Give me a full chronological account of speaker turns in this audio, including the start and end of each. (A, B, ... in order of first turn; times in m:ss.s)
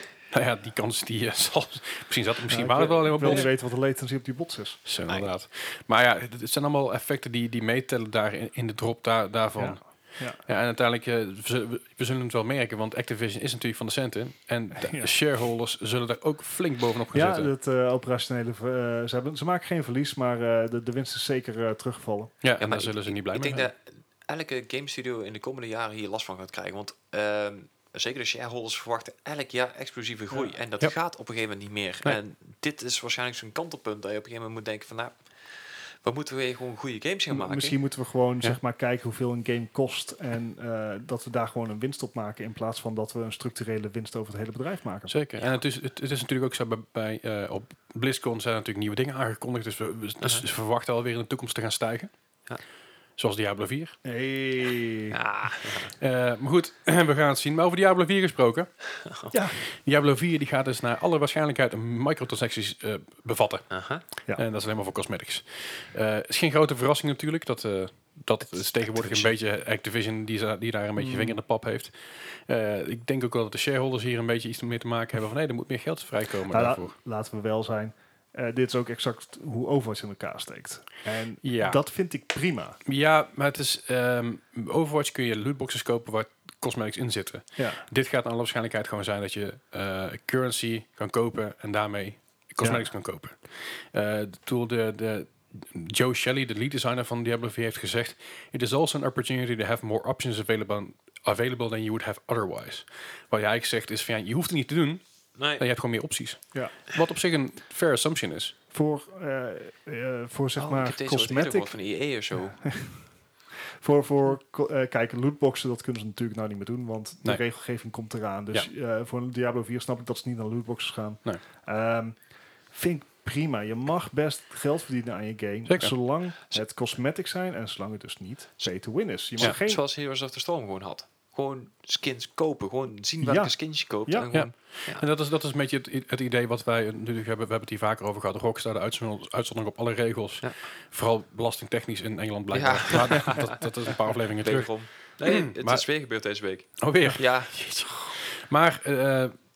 0:00.3-0:03.5 A
0:02.5-0:04.8 B
0:04.9-0:09.8 A
0:09.6-0:10.4 B
0:10.4-0:17.5 A
0:14.8-0:15.1 B
0:17.1-0:22.3 B
0:22.4-0:23.7 A
0:22.6-0:37.8 C
0:37.3-0:45.1 B
0:45.1-0:52.1 A
0:53.2-0:54.0 A
0:54.0-0:55.2 B
0:55.1-0:55.9 C
0:56.0-0:58.7 A
0:59.3-0:59.6 B
0:59.7-1:03.7 A
1:03.7-1:04.0 C
1:04.3-1:17.0 A
1:08.9-1:09.3 C
1:11.0-1:11.4 B
1:16.5-1:22.8 B
1:21.4-1:21.8 A
1:22.9-1:45.0 A
1:27.6-1:27.8 B
1:45.4-1:45.6 C
1:45.6-1:48.6 A
1:48.7-1:51.7 B
1:50.6-1:52.6 C
1:52.5-1:53.0 B
1:53.8-2:02.2 B
2:02.7-2:09.8 B
2:05.7-2:06.0 A
2:09.4-2:15.0 C
2:13.2-2:13.6 B
2:14.3-2:25.8 A
2:22.5-2:27.8 C
2:26.8-2:29.4 A